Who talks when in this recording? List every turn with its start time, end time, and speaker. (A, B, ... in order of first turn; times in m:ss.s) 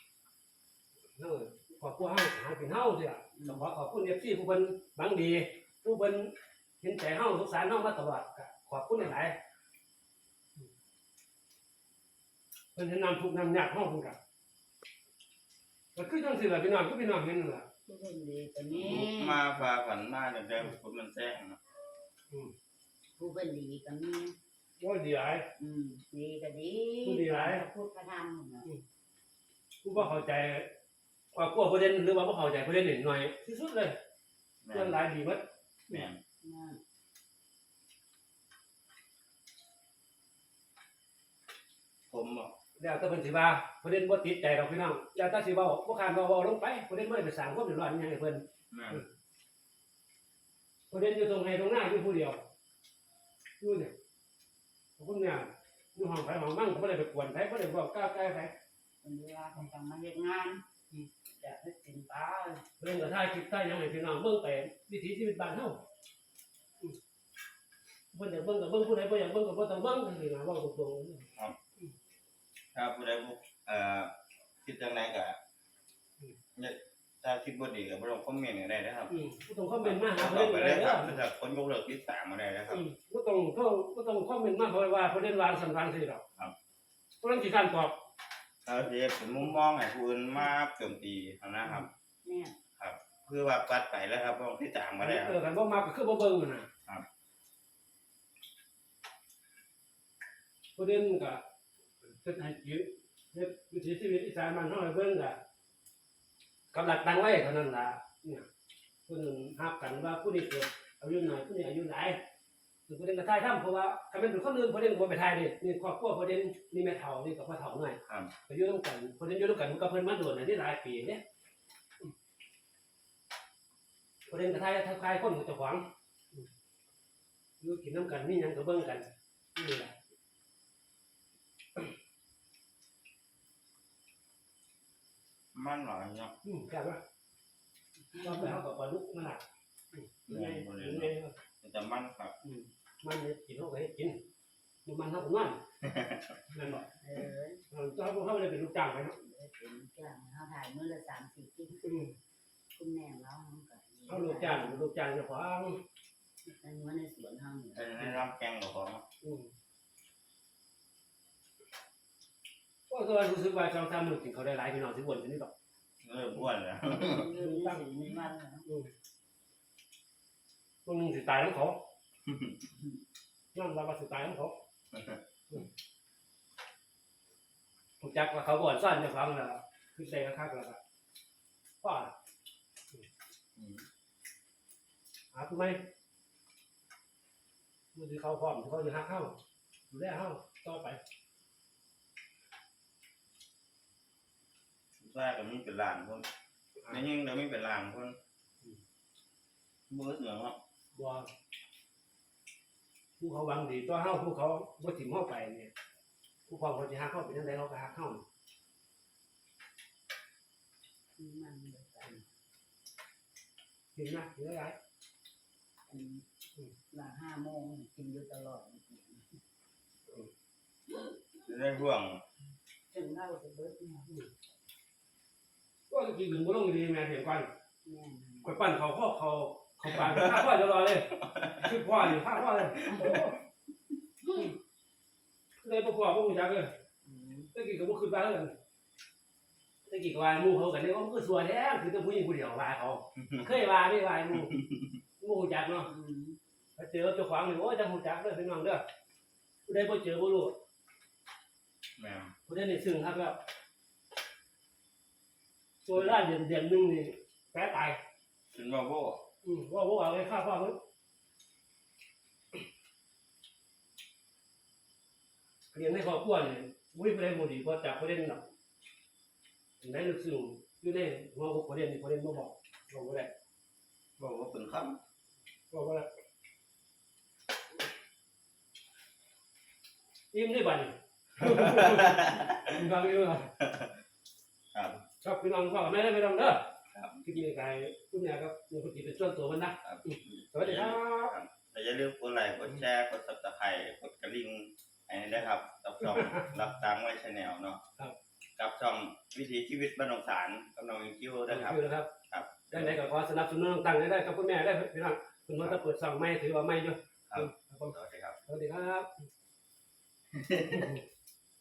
0:01.2-0:09.4 A
0:03.3-0:03.6 B
0:12.8-0:14.2 A
0:15.9-0:17.7 A
0:17.9-0:19.4 B
0:18.7-0:21.6 C
0:23.2-0:24.4 B
0:24.8-0:25.5 A
0:25.6-0:28.7 B
0:27.0-0:27.6 A
0:29.8-0:30.7 A
0:31.3-0:34.0 A
0:34.6-0:35.0 C
0:34.7-0:36.1 A
0:35.9-0:36.2 C
0:36.4-0:36.8 B
0:42.1-0:42.5 C
0:42.8-0:49.0 A
0:48.7-0:49.0 C
0:50.9-0:52.4 A
0:53.6-0:53.9 A
0:55.0-0:58.5 A
0:59.0-1:00.6 B
1:01.4-1:02.6 B
1:02.8-1:05.8 A
1:08.1-1:11.3 A
1:12.7-1:14.1 C
1:14.6-1:15.4 C
1:16.6-1:19.1 C
1:19.1-1:21.2 A
1:19.8-1:22.8 C
1:22.7-1:26.2 A
1:27.2-1:27.9 A
1:28.7-1:31.9 C
1:32.2-1:32.6 B
1:32.8-1:35.4 C
1:35.0-1:36.7 A
1:40.8-1:41.4 A
1:42.1-1:45.4 A
1:46.7-1:48.4 A
1:49.1-1:52.2 A
1:52.9-2:01.2 A
2:04.3-2:06.5 A
2:07.6-2:09.9 A
2:15.5-2:16.4 C
2:16.4-2:17.0 A
2:18.1-2:18.5 B
2:18.2-2:21.4 A
2:20.3-2:22.4 C
2:22.4-2:24.2 A
2:24.8-2:25.6 A
2:25.8-2:26.2 C
2:26.5-2:26.9 A
2:27.0-2:27.6 B
2:27.7-2:29.2 A
2:29.2-2:32.0 B
2:31.8-2:32.1 A
2:32.7-2:34.8 B
2:34.1-2:35.8 A
2:36.4-2:38.2 B
2:37.8-2:39.0 C
2:39.2-2:39.5 A
2:42.9-2:45.5 A
2:46.0-2:47.3 C
2:46.9-2:48.6 B
2:47.3-2:47.9 A
2:48.7-2:48.9 A
2:50.8-2:51.8 A
2:53.5-2:54.6 A
2:54.9-2:55.2 C
2:58.0-3:00.8 A
3:01.8-3:02.1 A
3:03.6-3:03.8 C
3:05.3-3:05.8 A
3:07.9-3:09.4 A
3:09.9-3:11.0 A
3:15.0-3:16.3 C
3:16.9-3:18.2 C
3:19.9-3:20.6 C
3:20.9-3:21.3 A
3:23.2-3:25.7 A
3:26.5-3:28.2 A
3:31.2-3:32.3 B
3:33.9-3:34.8 A
3:35.9-3:36.2 B
3:36.9-3:39.3 B
3:41.4-3:42.2 C
3:42.9-3:44.1 B
3:45.9-3:47.5 A
3:47.8-3:48.5 B
3:48.4-3:53.4 A
3:49.9-3:50.4 C
3:52.8-3:53.3 B
3:54.2-3:54.5 B
3:55.6-3:56.7 A
3:57.0-3:57.5 B
3:57.5-3:58.5 A
3:59.9-4:04.6 A
4:03.2-4:03.5 C
4:05.2-4:05.9 A
4:05.9-4:06.4 B
4:06.8-4:08.8 A
4:09.7-4:10.6 A
4:12.0-4:12.3 C
4:12.5-4:13.4 A
4:15.8-4:18.0 A
4:18.5-4:19.2 C
4:19.4-4:20.8 A
4:25.7-4:28.4 A
4:29.8-4:33.3 A
4:34.2-4:35.0 C
4:35.7-4:36.1 A
4:40.3-4:43.5 A
4:41.4-4:42.5 C
4:43.6-4:43.9 C
4:44.7-4:45.0 C
4:45.2-4:46.7 A
4:46.9-4:47.2 C
4:47.2-4:51.3 A
4:49.8-4:57.8 C
4:56.0-4:56.5 A
4:58.6-5:03.0 C
5:01.5-5:02.1 A
5:02.7-5:07.9 A
5:07.3-5:08.4 C
5:08.4-5:09.1 A
5:10.3-5:10.9 C
5:10.7-5:11.0 A